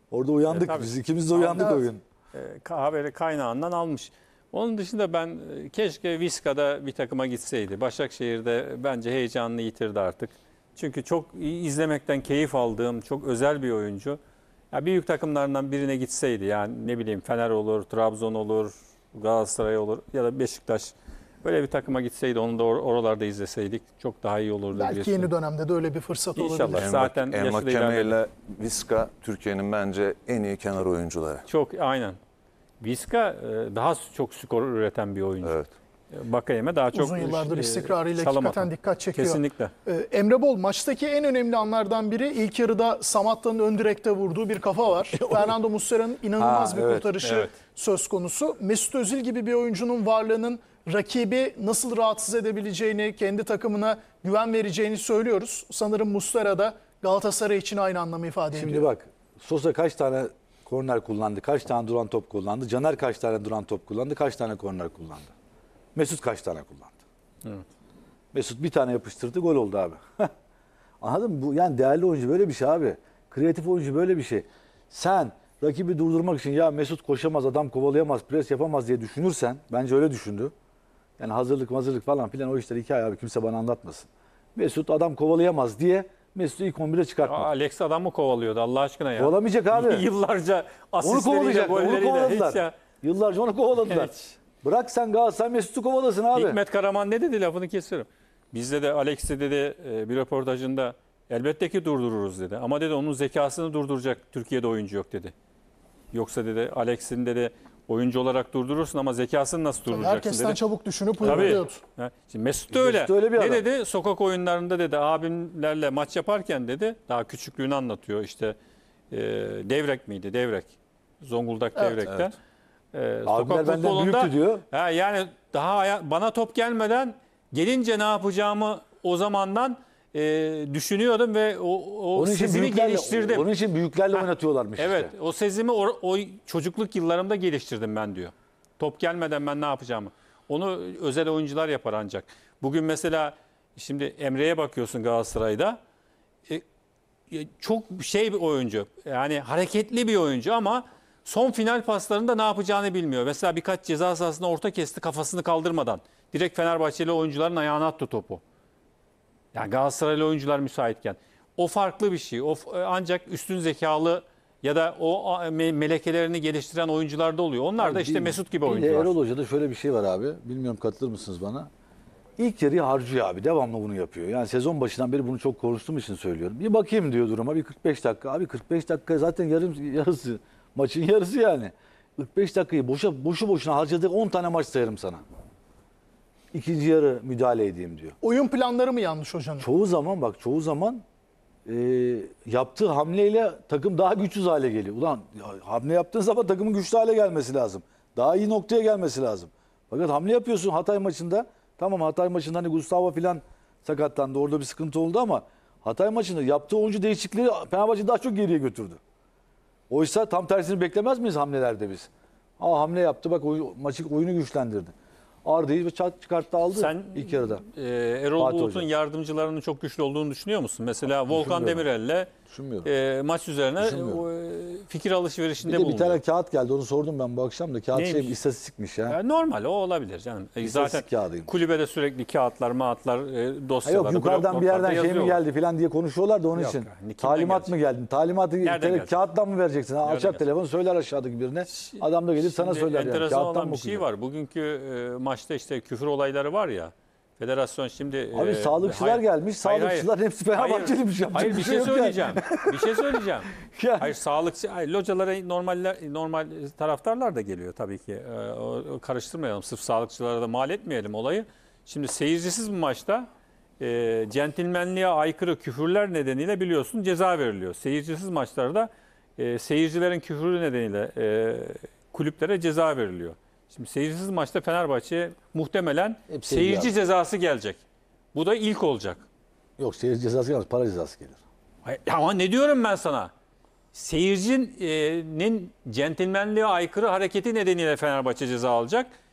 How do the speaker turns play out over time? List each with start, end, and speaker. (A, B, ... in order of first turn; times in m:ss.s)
0:00.1-0:02.0 A
0:00.5-0:01.7 B
0:01.6-0:01.9 C
0:02.3-0:14.2 B
0:14.7-0:25.3 B
0:24.7-0:26.9 C
0:26.4-0:28.2 B
0:26.7-0:31.4 D
0:31.5-0:32.2 B
0:32.8-0:39.7 B
0:35.4-0:35.7 D
0:36.9-0:58.9 C
0:45.1-0:45.5 A
0:46.4-0:47.1 A
0:47.2-0:47.6 B
0:58.5-1:05.3 A
1:06.0-1:07.0 A
1:08.3-1:10.3 A
1:11.0-1:20.5 A
1:21.2-1:27.5 A
1:27.2-1:32.7 B
1:29.2-1:30.1 A
1:31.0-1:36.6 A
1:33.8-1:34.2 B
1:36.3-1:45.3 B
1:46.1-1:50.6 B
1:49.9-1:51.8 C
1:51.2-1:58.6 B
1:51.2-1:51.6 A
1:52.7-1:53.6 A
1:59.1-2:02.4 B
2:01.8-2:02.0 C
2:02.9-2:13.5 B
2:03.3-2:04.6 A
2:12.2-2:15.1 A
2:14.1-2:25.8 B
2:27.3-2:38.4 B
2:39.5-2:49.1 B
2:47.8-2:51.7 A
2:52.4-3:05.2 A
3:06.5-3:08.2 A
3:08.2-3:09.7 C
3:09.6-3:11.0 A
3:11.7-3:29.0 A
3:29.9-3:34.9 A
3:35.4-3:37.6 A
3:36.7-3:42.3 B
3:38.4-3:38.9 A
3:41.1-3:41.8 A
3:42.5-3:42.9 A
3:42.8-3:46.2 B
3:43.8-3:44.2 A
3:45.6-3:49.2 A
3:47.9-3:48.4 B
3:49.1-3:55.4 B
3:50.6-3:51.5 A
3:53.8-4:04.0 A
3:56.5-3:57.8 B
3:58.6-3:59.2 B
4:00.0-4:00.4 B
4:01.7-4:23.3 B
4:08.3-4:14.2 A
4:23.8-4:37.8 B
4:36.3-4:36.9 A
4:38.3-4:39.2 B
4:39.8-4:41.4 A
4:41.8-4:43.3 B
4:43.9-4:49.1 B